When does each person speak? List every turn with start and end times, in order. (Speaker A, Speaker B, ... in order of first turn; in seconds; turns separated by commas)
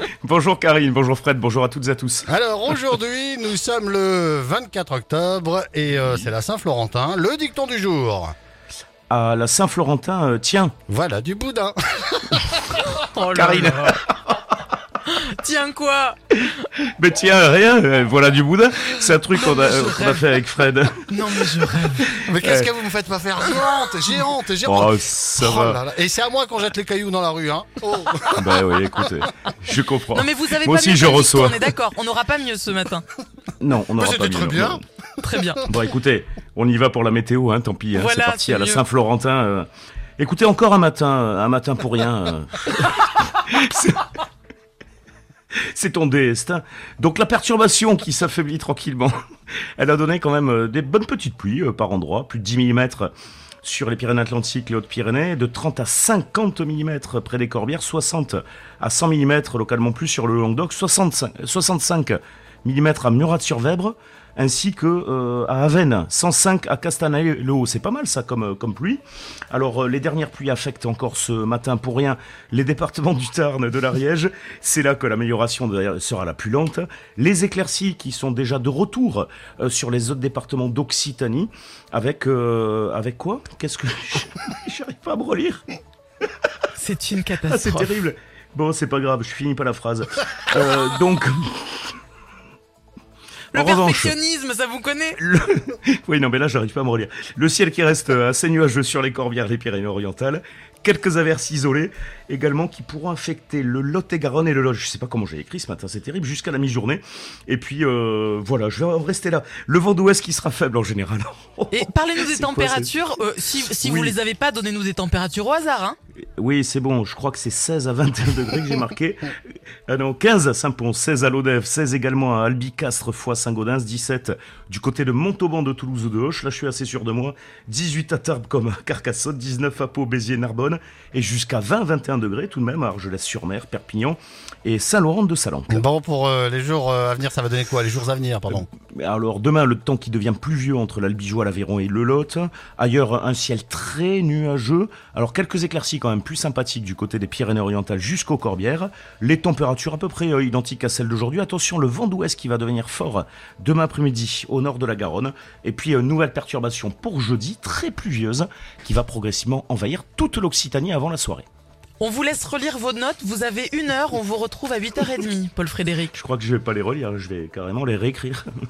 Speaker A: 0.2-2.3, Speaker B: 2.3-8.3, Speaker A: 5.9-6.3, Speaker A: 9.1-10.7, Speaker B: 10.9-12.8, Speaker C: 12.8-14.0, Speaker A: 13.3-14.3, Speaker C: 15.0-16.2, Speaker A: 17.0-21.4, Speaker C: 19.4-20.2, Speaker C: 21.1-22.1, Speaker A: 22.0-22.7, Speaker B: 22.2-29.3, Speaker A: 24.6-25.8, Speaker A: 28.4-31.7, Speaker C: 30.1-33.0, Speaker A: 33.6-34.8, Speaker B: 34.0-34.8, Speaker C: 35.2-35.7, Speaker A: 35.6-39.7, Speaker C: 37.9-38.8, Speaker A: 40.2-44.2, Speaker A: 45.7-49.1, Speaker A: 49.8-53.1, Speaker A: 53.6-85.6, Speaker C: 86.8-87.9, Speaker A: 87.5-92.0, Speaker C: 93.5-95.2, Speaker A: 93.5-94.1, Speaker A: 95.2-112.9, Speaker C: 111.7-116.0, Speaker A: 113.8-114.2, Speaker A: 116.4-119.3, Speaker A: 119.9-135.8, Speaker B: 135.7-138.7, Speaker A: 138.9-161.4, Speaker C: 162.0-166.1, Speaker A: 166.1-168.5